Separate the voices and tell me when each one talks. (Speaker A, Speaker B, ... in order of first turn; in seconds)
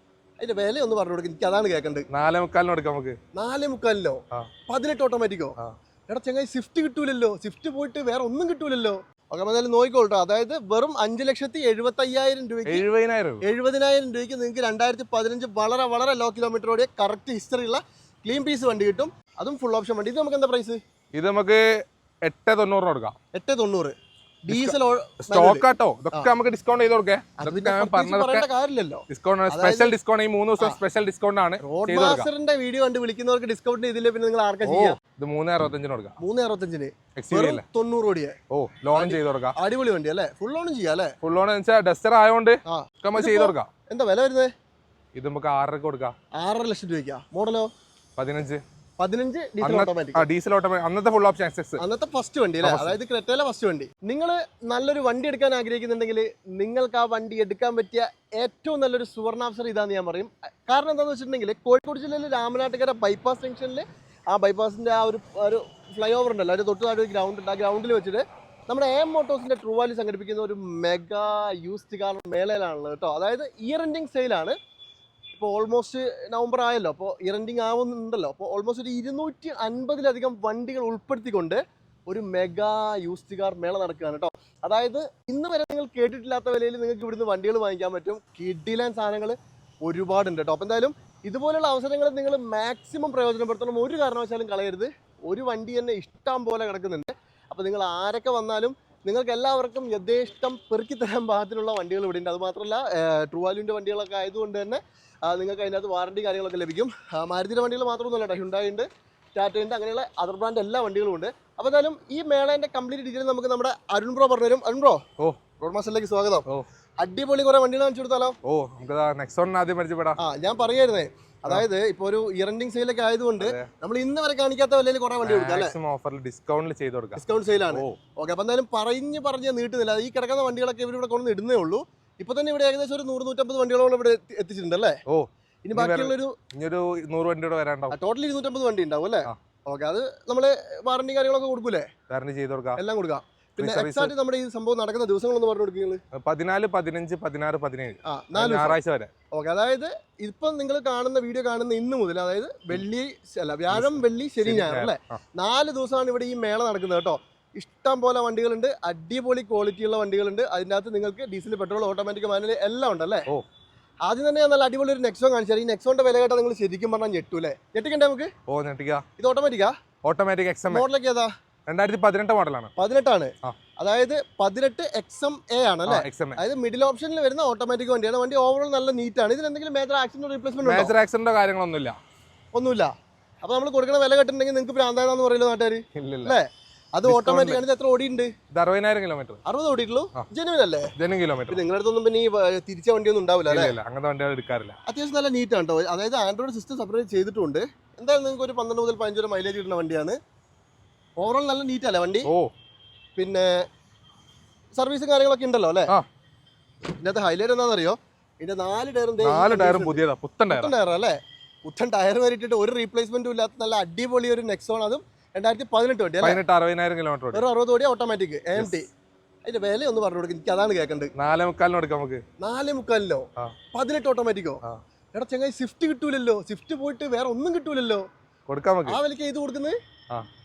Speaker A: 0.4-2.1, 3.4-5.6, 6.1-12.9, 13.4-20.8, 23.3-23.9, 24.4-26.3, 27.4-29.9, 31.6-35.0, 36.2-38.3, 39.0-41.1, 42.7-44.5, 46.4-47.7, 49.0-50.3, 51.8-74.6, 75.3-115.0, 115.6-116.5, 117.0-118.4, 120.2-125.8, 127.2-135.0, 135.6-136.3, 137.9-141.9, 142.8-146.0, 148.1-148.8, 149.3-163.3, 164.1-168.3, 169.2-169.7, 170.7-171.3, 172.8-180.9, 182.5-182.9, 183.4-188.3, 189.5-190.9, 191.5-193.8, 194.9-200.2, 201.2-202.3, 203.2-203.6, 204.8-205.9, 207.0-216.4, 217.3-218.9, 219.5-221.1, 222.4-224.6, 225.1-228.0, 228.9-229.8
Speaker B: 2.1-3.2, 12.7-13.4, 21.1-23.1, 24.5-28.5, 29.1-32.3, 34.6-36.2, 37.2-37.6, 38.5-39.5, 41.2-43.7, 45.1-46.1, 48.2-48.6, 49.6-51.8, 52.6-53.0, 118.5-120.2, 123.4-123.7, 125.2-128.0, 135.1-137.9, 142.1-142.8, 143.6-144.1, 146.1-149.1, 153.7-155.2, 168.5-169.0, 170.0-170.8, 171.7-172.7, 175.9-176.4, 180.6-182.0, 185.9-186.4, 187.1-187.6, 188.5-189.4, 191.0-191.6, 193.5-194.8, 209.2-210.7, 216.2-217.5, 221.2-222.2, 228.5-229.0